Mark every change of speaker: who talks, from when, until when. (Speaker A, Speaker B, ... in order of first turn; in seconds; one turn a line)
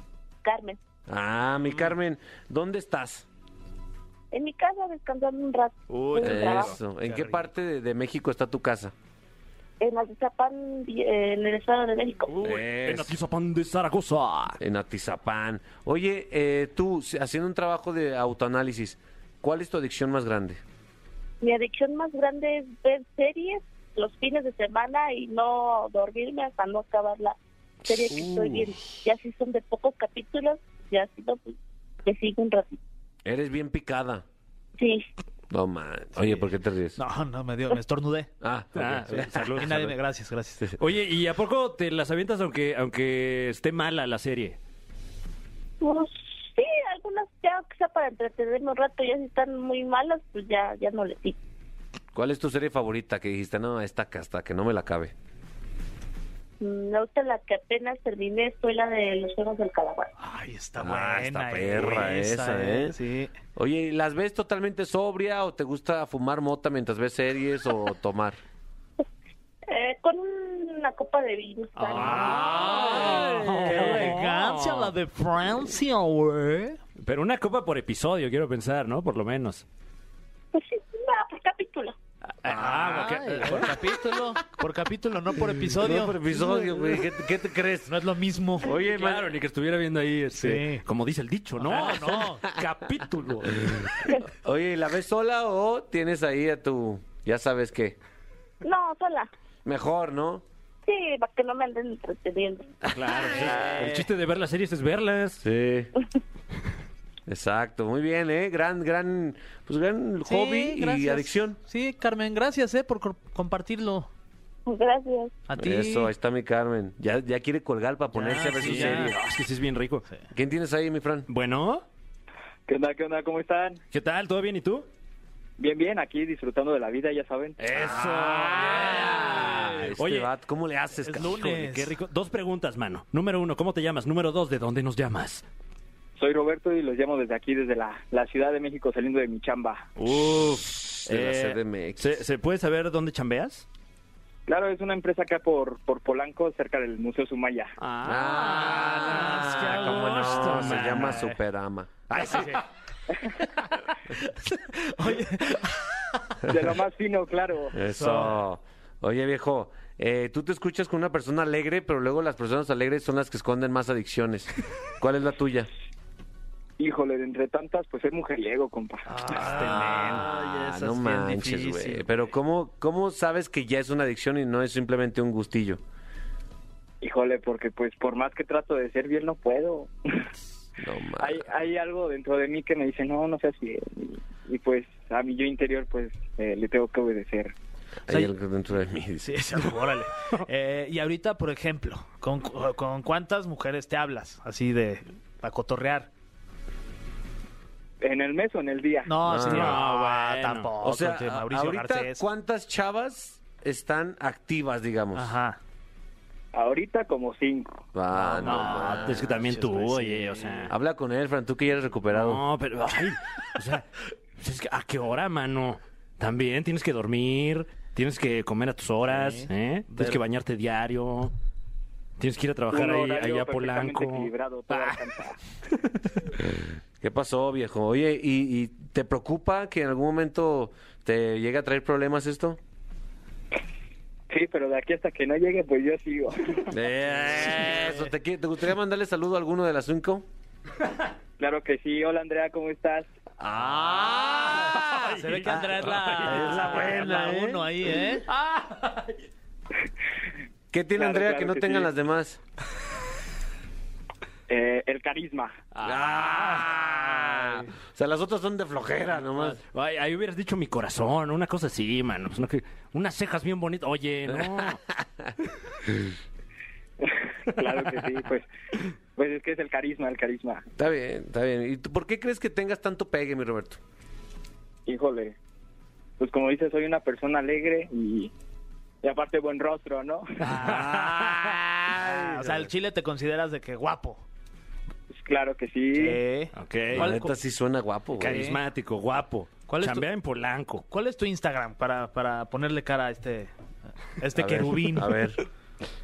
Speaker A: 0.4-0.8
Speaker B: 1.1-3.2
Speaker A: 4.3-6.8
Speaker C: 5.9-6.8
Speaker B: 6.2-8.9
Speaker D: 7.1-7.4
Speaker A: 9.8-12.4
Speaker C: 12.3-14.6
Speaker B: 12.4-13.1
Speaker B: 14.6-20.6
Speaker A: 21.4-32.8
Speaker B: 27.9-28.7
Speaker B: 33.2-34.2
Speaker A: 34.8-35.0
Speaker B: 35.5-37.0
Speaker D: 36.2-38.3
Speaker B: 38.4-39.8
Speaker C: 38.7-39.9
Speaker D: 39.5-40.6
Speaker C: 40.8-44.6
Speaker A: 45.8-51.4
Speaker B: 52.1-55.1
Speaker A: 56.6-60.1
Speaker D: 60.2-63.3
Speaker B: 60.8-63.0
Speaker B: 63.5-68.4
Speaker A: 69.7-72.9
Speaker C: 71.8-74.9
Speaker D: 71.9-76.8
Speaker B: 72.0-74.1
Speaker C: 77.0-79.6
Speaker A: 80.5-82.0
Speaker C: 82.4-83.7
Speaker B: 82.5-83.0
Speaker D: 82.5-87.0
Speaker B: 85.7-87.9
Speaker D: 87.8-88.7
Speaker B: 88.6-89.3
Speaker C: 88.8-94.1
Speaker D: 90.3-90.8
Speaker D: 91.6-92.4
Speaker B: 93.6-98.0
Speaker A: 98.6-99.3
Speaker B: 99.6-100.4
Speaker A: 100.8-102.8
Speaker C: 102.9-105.4
Speaker D: 103.4-104.1
Speaker B: 105.4-105.9
Speaker B: 107.3-111.6
Speaker D: 110.2-114.1
Speaker A: 114.7-115.3
Speaker D: 115.5-116.1
Speaker B: 115.5-119.2
Speaker D: 118.1-119.1
Speaker C: 118.6-120.0
Speaker B: 120.3-121.3
Speaker C: 121.3-121.8
Speaker E: 122.7-123.8
Speaker C: 123.9-124.9
Speaker E: 125.6-127.6
Speaker C: 127.6-130.3
Speaker B: 127.8-131.4
Speaker D: 128.0-129.6
Speaker D: 131.0-132.0
Speaker C: 131.3-135.4
Speaker E: 136.2-139.9
Speaker C: 140.0-143.7
Speaker B: 141.0-142.2
Speaker E: 144.5-147.7
Speaker C: 147.8-151.2
Speaker B: 148.0-152.5
Speaker D: 150.5-151.3
Speaker C: 152.1-152.6
Speaker D: 152.2-152.6
Speaker D: 154.2-156.2
Speaker E: 156.5-157.7
Speaker B: 157.7-165.7
Speaker D: 157.9-158.3
Speaker E: 166.8-169.2
Speaker D: 169.1-172.1
Speaker C: 169.3-170.2
Speaker B: 169.4-175.8
Speaker E: 177.0-179.9
Speaker B: 180.8-181.4
Speaker E: 181.2-187.5
Speaker B: 188.1-189.4
Speaker D: 189.2-196.1
Speaker E: 198.0-199.2
Speaker D: 199.1-202.2
Speaker B: 199.3-199.8
Speaker C: 199.4-200.7
Speaker B: 200.8-205.3
Speaker D: 205.1-205.6
Speaker E: 206.5-207.8
Speaker B: 207.9-209.2
Speaker D: 208.1-210.7
Speaker C: 208.4-210.7
Speaker B: 210.7-212.4
Speaker C: 212.1-221.3
Speaker D: 219.1-220.2
Speaker C: 222.2-225.1
Speaker E: 222.7-225.3
Speaker C: 225.7-226.3
Speaker B: 226.4-232.6
Speaker E: 234.3-236.7
Speaker B: 236.7-240.2
Speaker D: 237.5-238.0
Speaker E: 241.4-243.1
Speaker B: 243.4-247.7
Speaker C: 243.8-247.0
Speaker D: 245.0-248.2
Speaker C: 248.3-249.1
Speaker B: 250.7-252.4
Speaker E: 250.9-251.9
Speaker E: 254.5-255.5
Speaker C: 255.7-257.6
Speaker B: 255.8-259.6
Speaker C: 259.4-264.8
Speaker B: 264.3-265.3
Speaker E: 267.0-268.5
Speaker E: 269.1-270.6
Speaker B: 270.8-273.8
Speaker E: 274.9-275.3
Speaker E: 276.2-278.3
Speaker E: 279.0-280.4
Speaker C: 280.4-281.2
Speaker D: 280.5-281.4
Speaker B: 280.5-282.7
Speaker D: 281.9-284.2
Speaker E: 285.2-286.2
Speaker D: 285.9-287.3
Speaker C: 286.5-287.1
Speaker B: 286.9-288.4
Speaker C: 288.2-290.8
Speaker D: 288.2-288.6
Speaker D: 289.7-290.1
Speaker D: 290.9-293.5
Speaker D: 294.1-295.2
Speaker B: 294.3-295.4